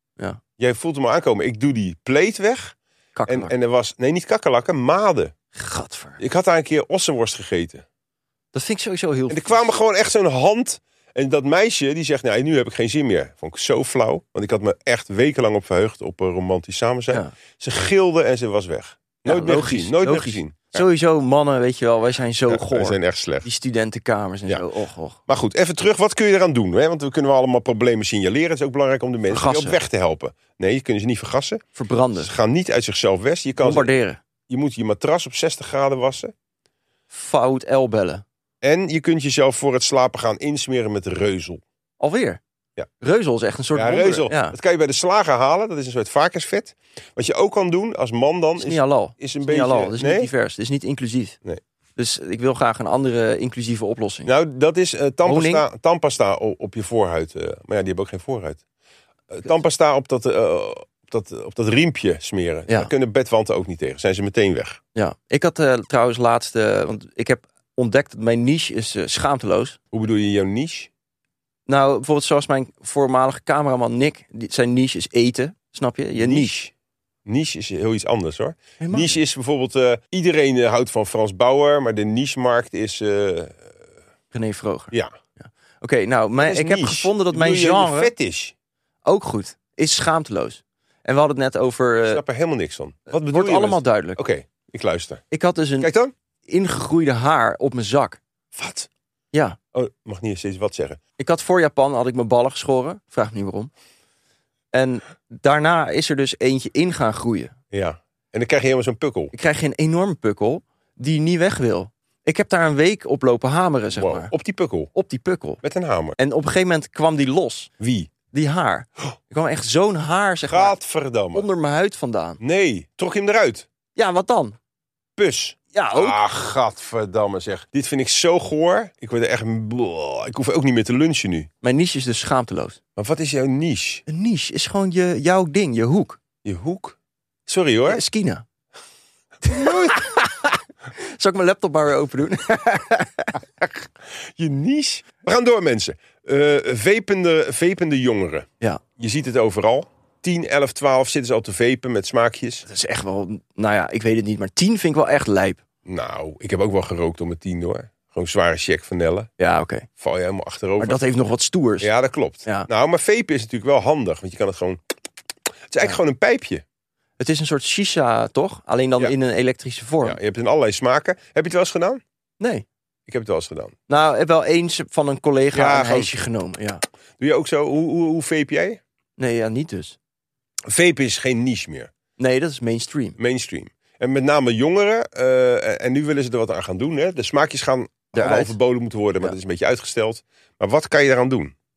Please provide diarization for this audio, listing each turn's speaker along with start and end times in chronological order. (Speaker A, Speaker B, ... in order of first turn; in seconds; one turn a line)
Speaker A: 0.6-2.7
Speaker B: 3.1-3.5
Speaker A: 3.3-5.3
Speaker B: 5.5-6.2
Speaker A: 6.2-7.8
Speaker B: 8.5-9.7
Speaker A: 9.3-20.8
Speaker B: 19.2-25.2
Speaker A: 22.5-23.4
Speaker A: 25.3-31.6
Speaker B: 29.3-29.8
Speaker B: 31.8-32.3
Speaker A: 32.2-33.9
Speaker B: 33.6-34.2
Speaker A: 34.5-36.3
Speaker B: 37.1-38.2
Speaker A: 38.6-41.6
Speaker B: 42.0-42.4
Speaker B: 43.0-44.5
Speaker A: 43.7-50.3
Speaker B: 48.6-51.4
Speaker B: 52.0-54.3
Speaker A: 54.2-58.6
Speaker B: 55.2-55.6
Speaker A: 59.3-64.8
Speaker B: 64.9-69.8
Speaker A: 69.9-70.9
Speaker B: 71.7-76.5
Speaker A: 76.2-76.7
Speaker A: 77.2-83.6
Speaker B: 78.8-79.2
Speaker B: 84.3-88.1
Speaker A: 86.4-88.5
Speaker B: 89.0-92.2
Speaker A: 92.1-95.2
Speaker B: 93.1-94.2
Speaker B: 95.3-95.9
Speaker A: 95.8-96.1
Speaker B: 96.5-98.2
Speaker A: 98.5-98.9
Speaker A: 99.7-101.0
Speaker B: 101.2-103.7
Speaker B: 104.7-107.5
Speaker A: 107.7-109.3
Speaker B: 109.3-114.3
Speaker A: 114.0-114.9
Speaker B: 114.9-115.6
Speaker A: 115.6-116.2
Speaker B: 116.2-117.7
Speaker A: 117.8-118.1
Speaker B: 118.3-120.7
Speaker A: 120.5-121.5
Speaker B: 121.3-122.4
Speaker A: 122.4-123.7
Speaker B: 123.9-124.6
Speaker A: 125.2-131.5
Speaker B: 125.7-126.2
Speaker B: 131.6-132.8
Speaker A: 133.0-134.0
Speaker B: 134.1-136.2
Speaker A: 136.4-136.9
Speaker A: 137.5-138.0
Speaker B: 137.9-138.4
Speaker A: 139.4-140.0
Speaker B: 139.4-143.4
Speaker A: 144.4-152.6
Speaker B: 152.7-155.6
Speaker A: 155.8-159.3
Speaker B: 159.4-159.9
Speaker A: 160.0-161.0
Speaker B: 160.8-161.9
Speaker A: 161.8-164.8
Speaker A: 165.7-166.6
Speaker B: 167.2-170.2
Speaker A: 170.0-172.0
Speaker B: 172.4-172.6
Speaker A: 173.1-173.8
Speaker B: 173.9-176.8
Speaker A: 175.5-176.1
Speaker A: 177.2-178.8
Speaker B: 179.2-179.9
Speaker A: 180.7-181.9
Speaker B: 182.2-183.2
Speaker A: 183.2-191.5
Speaker B: 188.1-188.5